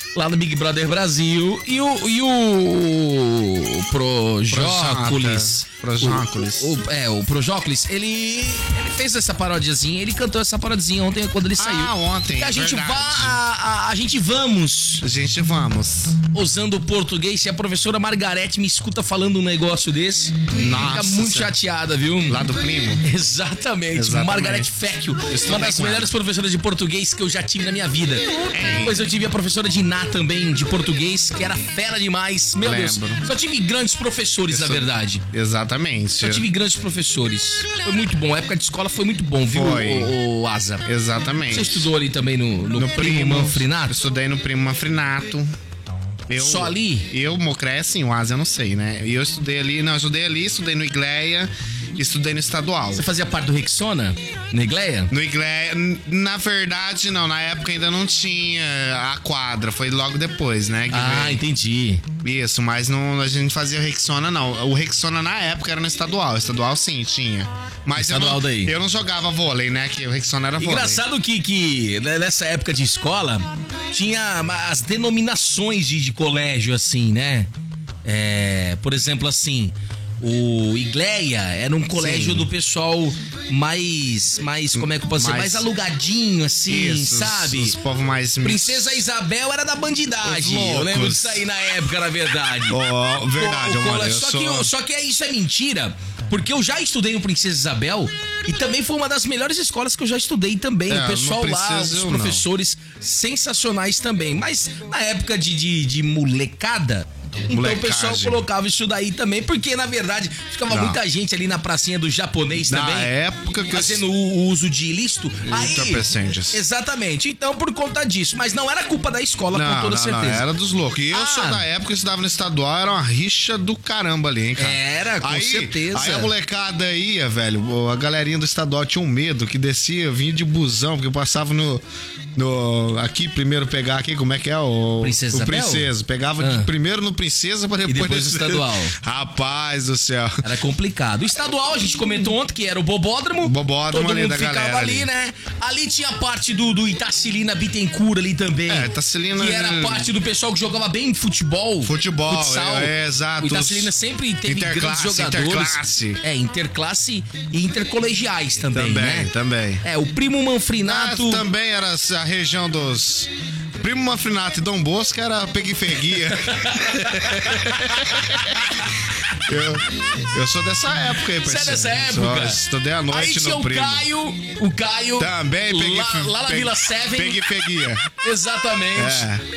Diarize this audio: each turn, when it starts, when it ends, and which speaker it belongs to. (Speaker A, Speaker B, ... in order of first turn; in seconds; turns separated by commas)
Speaker A: 0.1-15.1, Speaker B: 4.5-6.8, Speaker B: 11.6-13.4, Speaker B: 15.0-16.2, Speaker A: 16.3-22.4, Speaker B: 20.5-21.6, Speaker B: 22.3-23.0, Speaker A: 23.0-35.2, Speaker B: 23.9-24.7, Speaker B: 25.2-26.1, Speaker B: 28.5-29.1, Speaker B: 32.6-33.2, Speaker B: 34.5-36.5, Speaker A: 36.2-40.9, Speaker B: 39.5-40.1, Speaker B: 40.9-41.9, Speaker A: 41.5-44.0, Speaker B: 42.8-45.5, Speaker B: 46.3-53.1, Speaker A: 46.4-47.1, Speaker A: 52.9-55.1, Speaker B: 55.1-61.4, Speaker A: 60.9-62.0, Speaker B: 62.2-71.0, Speaker A: 68.0-68.7, Speaker A: 70.6-77.5, Speaker A: 78.0-87.8, Speaker B: 81.9-82.5, Speaker B: 84.7-85.7, Speaker B: 86.7-89.1, Speaker A: 88.4-92.8, Speaker B: 90.2-91.5, Speaker B: 92.7-94.7, Speaker A: 93.3-113.1, Speaker B: 100.9-102.5, Speaker B: 107.5-108.5, Speaker B: 110.7-111.0, Speaker B: 112.5-114.0, Speaker A: 113.7-120.5, Speaker B: 115.5-116.6, Speaker B: 119.5-131.8, Speaker A: 121.1-121.6, Speaker A: 124.6-126.3, Speaker B: 132.4-140.4, Speaker A: 135.0-136.7, Speaker A: 137.9-138.9, Speaker A: 140.4-159.3, Speaker B: 143.4-145.1, Speaker B: 148.7-150.2, Speaker B: 151.8-156.2, Speaker B: 158.7-159.8, Speaker A: 159.8-161.5, Speaker B: 160.8-174.1, Speaker A: 166.3-168.9, Speaker A: 171.4-177.4, Speaker B: 175.2-178.1, Speaker A: 178.2-179.3, Speaker B: 178.9-179.4